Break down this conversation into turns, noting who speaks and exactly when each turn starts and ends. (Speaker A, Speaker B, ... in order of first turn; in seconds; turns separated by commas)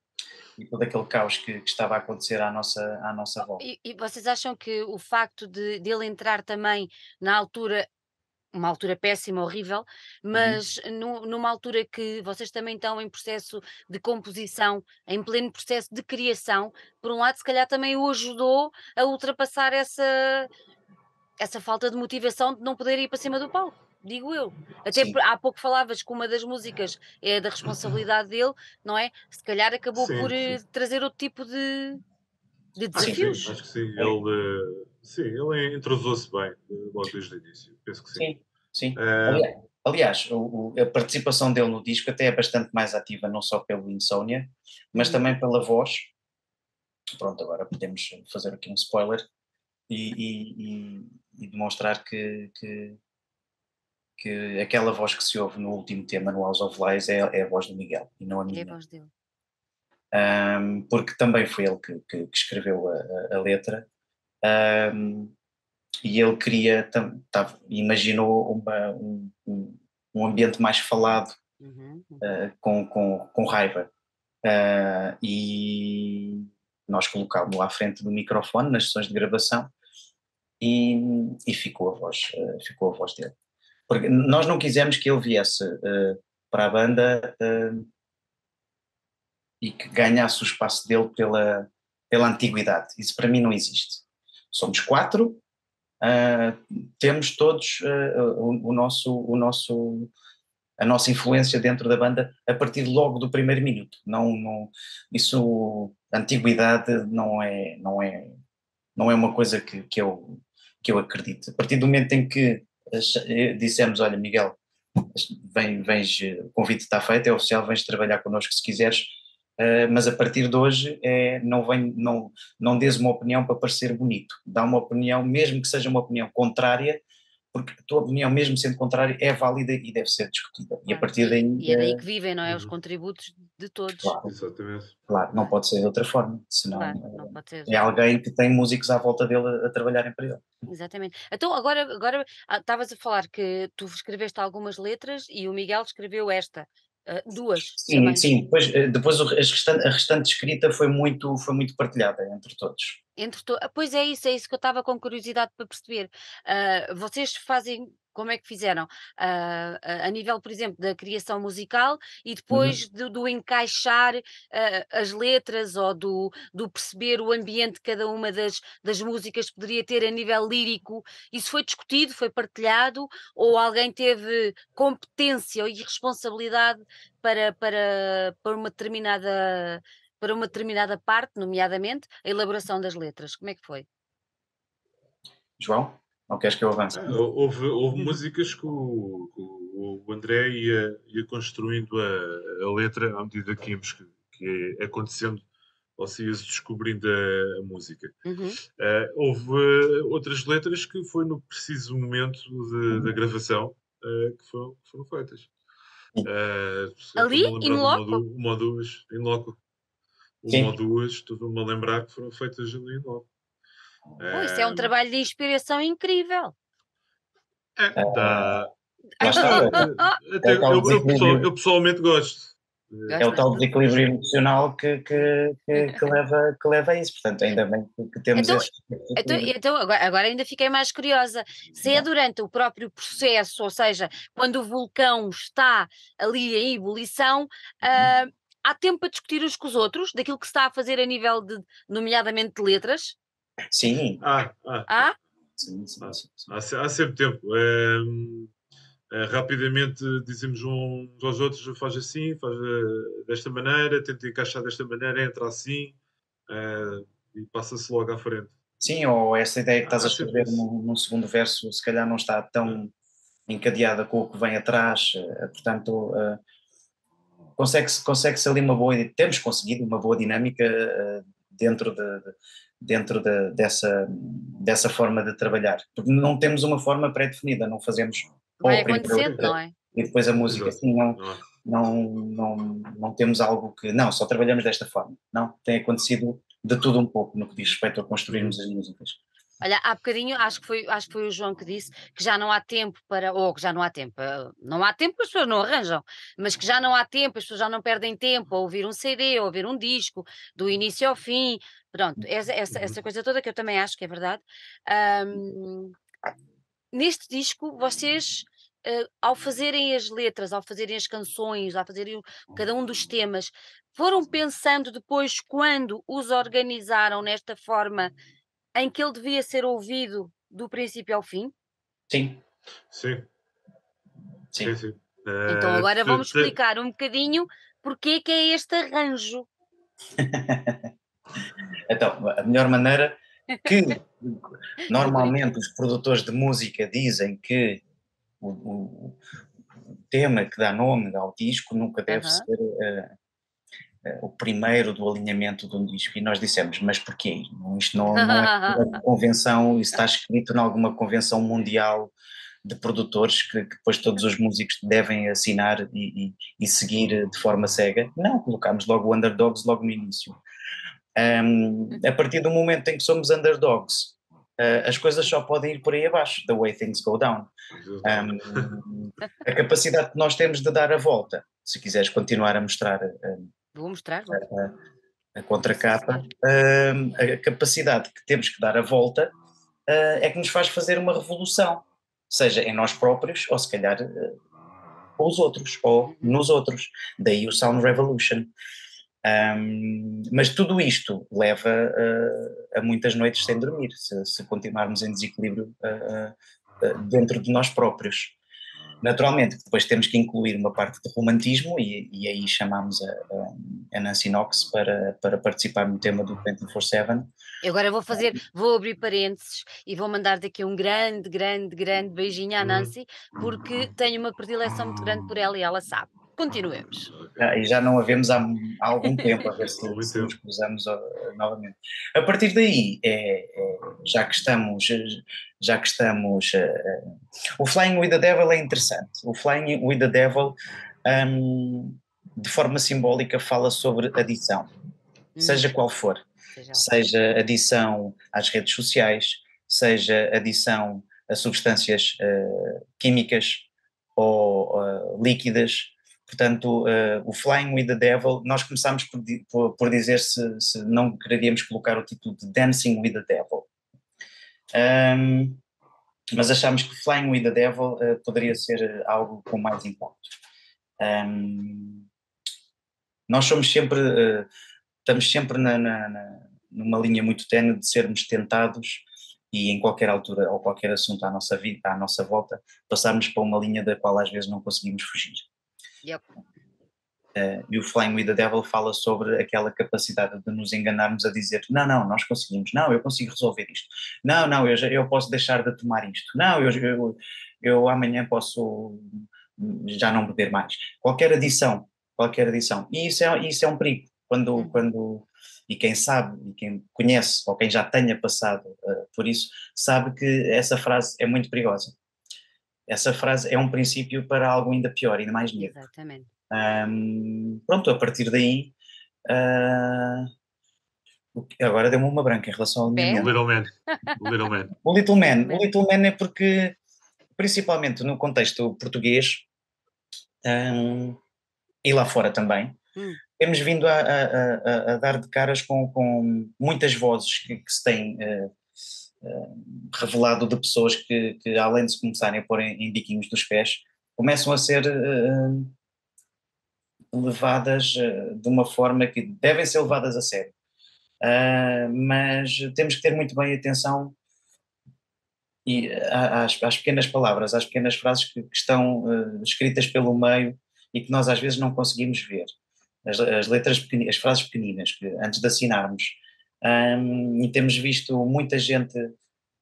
Speaker A: 0.6-3.6, Speaker B: 3.6-7.9, Speaker B: 8.5-20.5, Speaker A: 10.3-10.6, Speaker B: 21.4-32.0, Speaker A: 24.9-25.2, Speaker C: 29.9-30.3, Speaker B: 32.8-33.5, Speaker A: 32.9-34.2, Speaker C: 33.4-38.3, Speaker A: 38.1-46.1, Speaker C: 39.0-39.5, Speaker B: 44.9-45.2, Speaker A: 47.1-49.2, Speaker A: 49.9-53.0, Speaker A: 54.2-58.7, Speaker B: 58.5-59.1, Speaker A: 60.1-63.9, Speaker A: 64.4-65.3, Speaker A: 66.0-71.3, Speaker B: 71.6-72.3, Speaker A: 72.2-73.9, Speaker A: 74.4-79.7, Speaker A: 80.6-83.3, Speaker A: 83.9-87.9, Speaker A: 89.6-95.4, Speaker A: 96.0-100.1, Speaker A: 100.8-108.3, Speaker A: 109.0-114.6, Speaker A: 115.1-127.0, Speaker A: 127.5-132.0, Speaker B: 130.9-134.2, Speaker C: 132.4-132.7, Speaker A: 134.0-134.3, Speaker C: 134.2-134.9, Speaker A: 135.1-140.4, Speaker B: 136.7-137.9, Speaker B: 140.7-148.3, Speaker A: 147.7-153.0, Speaker B: 153.2-183.8, Speaker A: 162.5-162.8, Speaker A: 185.6-187.2, Speaker C: 186.9-195.4, Speaker C: 196.0-198.2, Speaker B: 198.2-198.6, Speaker C: 198.8-205.5, Speaker C: 206.2-209.6, Speaker B: 207.2-208.2, Speaker C: 210.4-213.3, Speaker A: 210.5-210.7, Speaker C: 214.2-214.9, Speaker B: 214.3-216.5, Speaker C: 217.8-223.2, Speaker A: 218.0-218.6, Speaker B: 219.2-220.2, Speaker A: 219.2-219.9, Speaker A: 220.4-221.5, Speaker B: 223.1-223.7, Speaker A: 223.2-229.5, Speaker B: 228.3-243.2, Speaker A: 231.8-232.1, Speaker A: 243.7-244.2, Speaker C: 244.2-245.1, Speaker B: 244.9-245.1, Speaker A: 245.6-246.5, Speaker C: 246.0-248.5, Speaker C: 249.1-256.0, Speaker C: 256.5-258.5, Speaker A: 258.8-262.9, Speaker C: 259.8-260.6, Speaker A: 263.5-266.4, Speaker A: 267.6-289.2, Speaker B: 278.6-279.7, Speaker C: 278.9-279.4, Speaker C: 280.4-281.4, Speaker B: 289.6-306.0, Speaker C: 302.7-302.9, Speaker B: 306.9-318.1, Speaker B: 318.8-321.5, Speaker A: 322.1-322.4, Speaker C: 322.9-323.3, Speaker C: 324.6-326.6, Speaker B: 325.5-329.5, Speaker A: 330.2-330.9, Speaker A: 331.9-337.8, Speaker B: 334.9-335.5, Speaker A: 338.4-339.2, Speaker A: 340.1-343.1, Speaker B: 342.1-342.5, Speaker A: 344.0-360.4, Speaker B: 348.1-348.9, Speaker A: 361.1-367.5, Speaker C: 367.8-368.8, Speaker A: 368.0-373.5, Speaker B: 373.7-374.5, Speaker A: 374.3-374.7, Speaker A: 375.4-379.3, Speaker B: 375.7-376.3, Speaker A: 379.9-384.4, Speaker A: 385.2-388.5, Speaker A: 389.2-398.4, Speaker A: 399.0-407.3, Speaker B: 407.6-417.1, Speaker C: 412.6-412.9, Speaker C: 417.1-417.6, Speaker A: 417.4-434.7, Speaker C: 419.4-420.3, Speaker B: 435.4-435.6, Speaker A: 435.4-453.7, Speaker B: 436.5-436.9, Speaker A: 454.7-455.6, Speaker A: 456.4-460.3, Speaker A: 461.0-462.1, Speaker A: 463.3-464.5, Speaker A: 465.0-475.4, Speaker A: 477.3-501.9, Speaker B: 494.6-494.8, Speaker A: 502.9-505.7, Speaker B: 505.6-506.3, Speaker A: 506.5-508.7, Speaker A: 509.3-510.3, Speaker A: 511.3-513.3, Speaker B: 512.9-513.3, Speaker C: 513.1-514.8, Speaker B: 513.9-514.2, Speaker A: 514.8-516.7, Speaker B: 515.4-515.7, Speaker A: 517.4-519.5, Speaker A: 520.4-521.2, Speaker A: 521.8-522.8, Speaker A: 523.4-528.5, Speaker A: 529.2-535.8, Speaker A: 537.1-540.5, Speaker A: 541.2-544.1, Speaker A: 545.6-552.5, Speaker A: 553.0-559.1